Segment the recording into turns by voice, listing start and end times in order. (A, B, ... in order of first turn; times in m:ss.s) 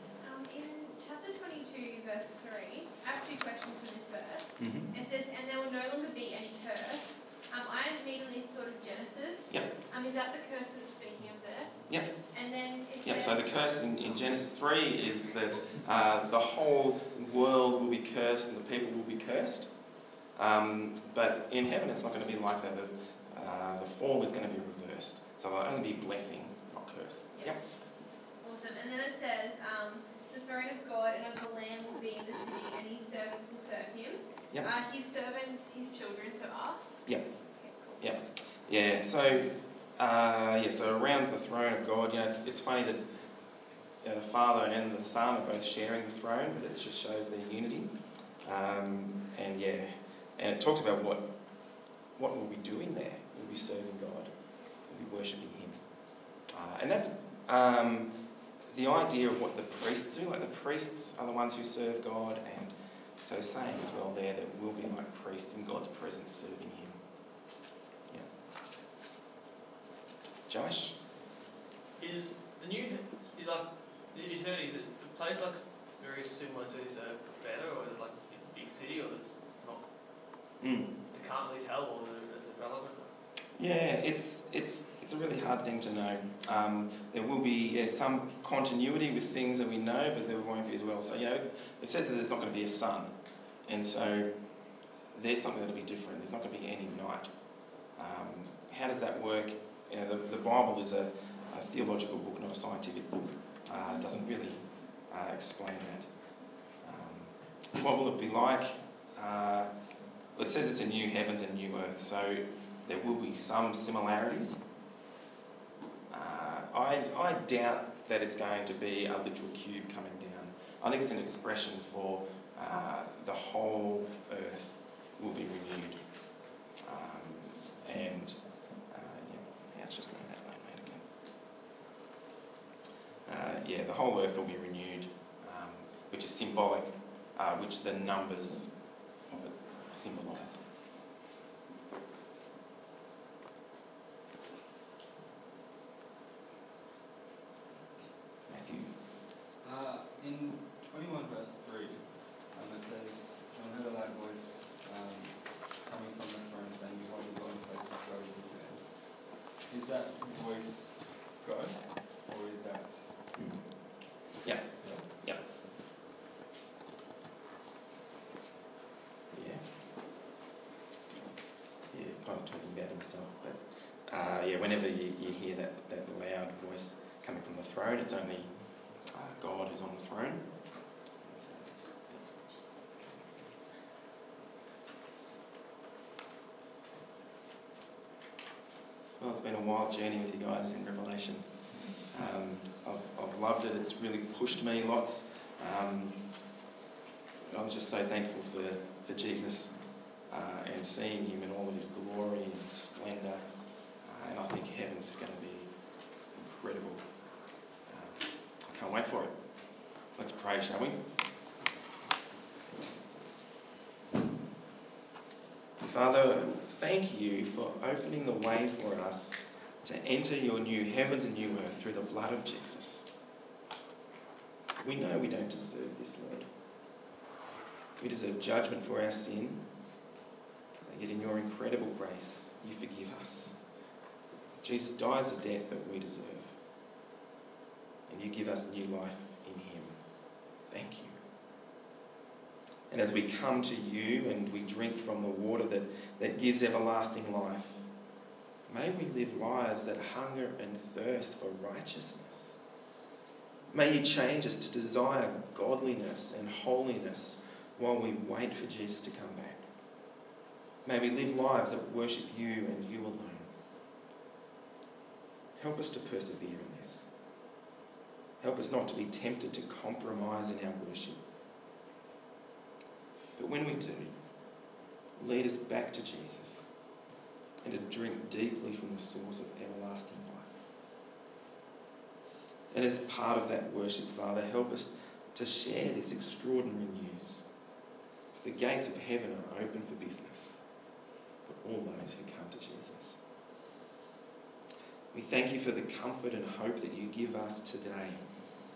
0:00.2-0:13.4 A
0:04.6-0:04.9 B
0:13.0-0:19.7 B
0:20.4-0:27.6 B
0:28.4-0:37.0 A
0:37.6-0:38.0 A
0:38.0-0:43.0 B
0:44.0-0:47.9 B
0:48.4-0:51.3 B
0:52.2-0:54.3 B
0:54.8-0:55.8 B
0:56.5-0:58.1 B
0:58.7-1:07.0 B
1:10.5-1:10.9 B
1:12.0-1:19.8 C
1:20.6-1:20.9 B
1:21.1-1:23.1 C
1:23.6-1:33.1 B
1:33.6-1:34.3 B
1:35.1-1:37.3 B
1:38.0-1:46.1 B
1:46.8-1:49.7 B
1:50.4-1:54.6 B
1:56.1-2:06.0 B
2:06.8-2:08.4 B
2:08.9-2:11.0 B
2:13.2-2:20.6 B
2:28.5-2:28.9 B
2:29.6-2:43.0 D
2:43.4-2:43.7 B
2:44.3-2:45.4 B
2:44.8-2:45.1 D
2:49.3-2:49.6 B
2:51.9-2:58.5 B
2:59.0-3:00.4 B
3:01.2-3:02.2 B
3:09.2-3:11.5 B
3:12.0-3:16.2 B
3:17.5-3:19.7 B
3:20.3-3:23.4 B
3:24.0-3:25.7 B
3:26.3-3:27.0 B
3:27.9-3:29.3 B
3:30.1-3:31.0 B
3:35.8-3:43.0 B
3:44.8-3:46.5 B
3:48.0-3:49.6 B
3:50.8-3:53.6 B
3:54.6-3:56.5 B
3:58.1-4:00.0 B
4:00.7-4:01.2 B
4:02.9-4:07.8 B
4:08.7-4:12.6 B
4:13.7-4:19.6 B
4:20.8-4:23.5 B
4:25.6-4:27.1 B
4:28.4-4:31.2 B
4:33.4-4:34.1 B
4:35.2-4:36.7 B
4:37.6-4:40.5 B
4:42.7-4:47.4 B
4:48.3-4:50.6 B
4:51.4-4:53.2 B
4:55.1-4:58.2 B